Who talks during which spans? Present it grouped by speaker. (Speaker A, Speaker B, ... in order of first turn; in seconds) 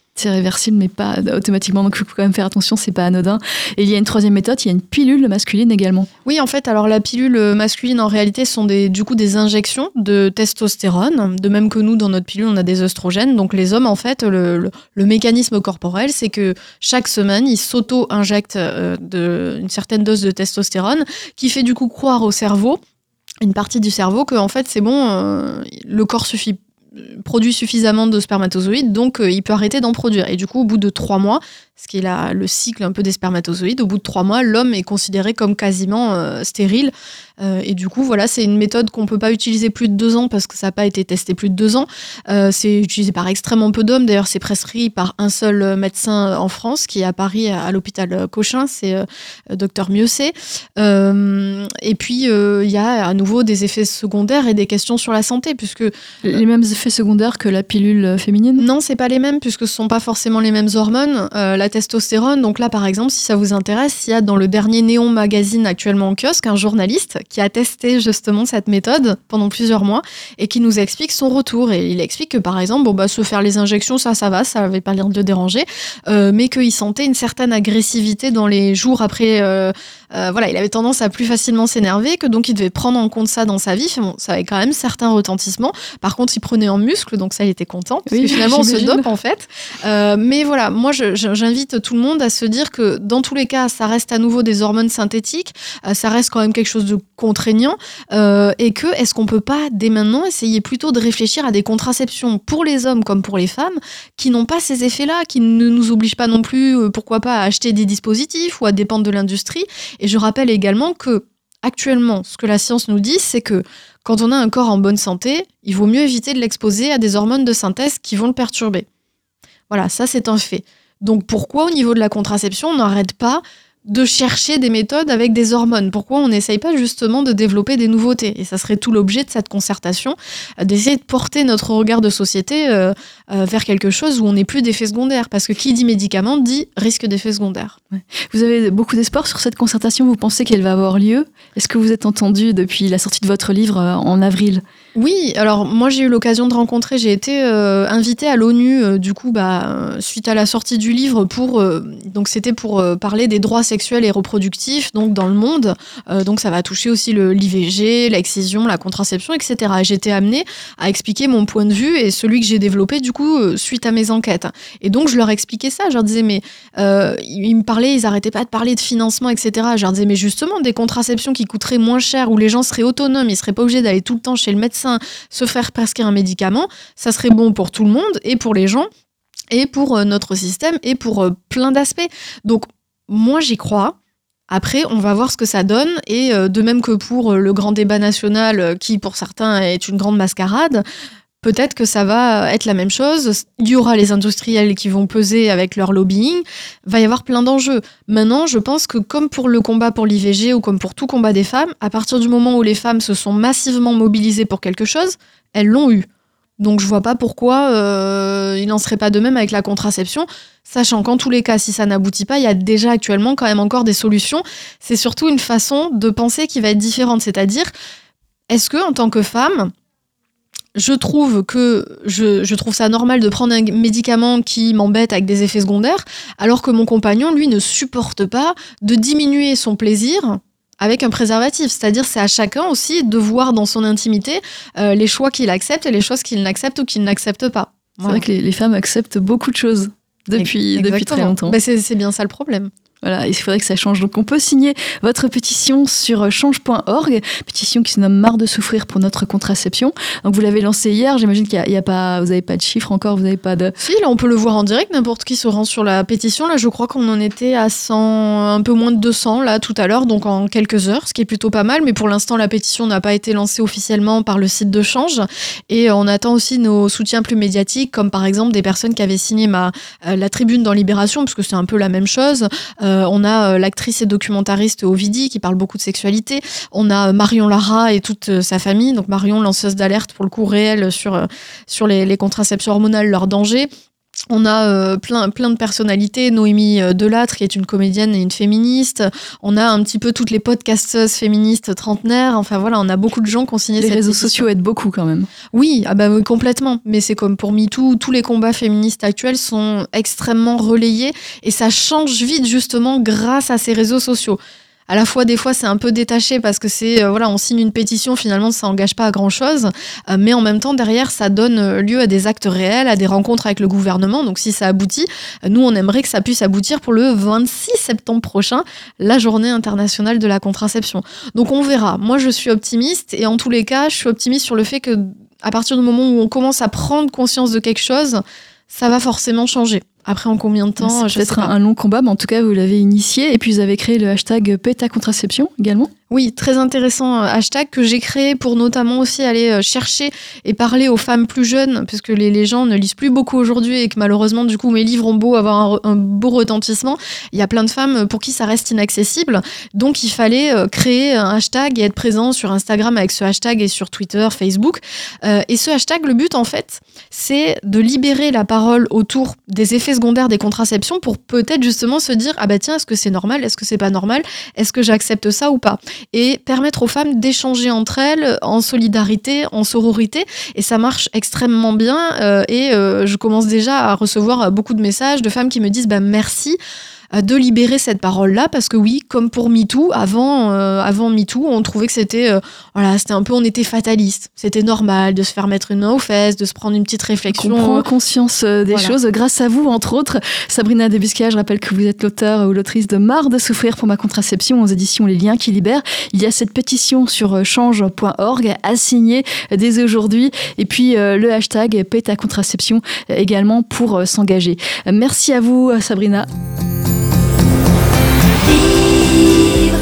Speaker A: 0.2-6.1, 56.2-58.7, 88.1-89.1, 137.9-144.6, 238.0-241.6, 243.0-253.7, 293.8-295.3, 330.8-335.9, 387.3-406.3, 408.7-409.4
Speaker B: 6.3-22.8, 23.4-55.9, 58.6-118.9, 119.7-137.8, 144.9-178.9, 179.5-184.0, 184.5-190.8, 191.4-206.1, 206.6-217.7, 218.5-219.7, 220.8-238.2, 240.4-242.7, 253.8-283.7, 284.3-294.5, 295.5-331.5, 336.1-376.6, 377.1-387.9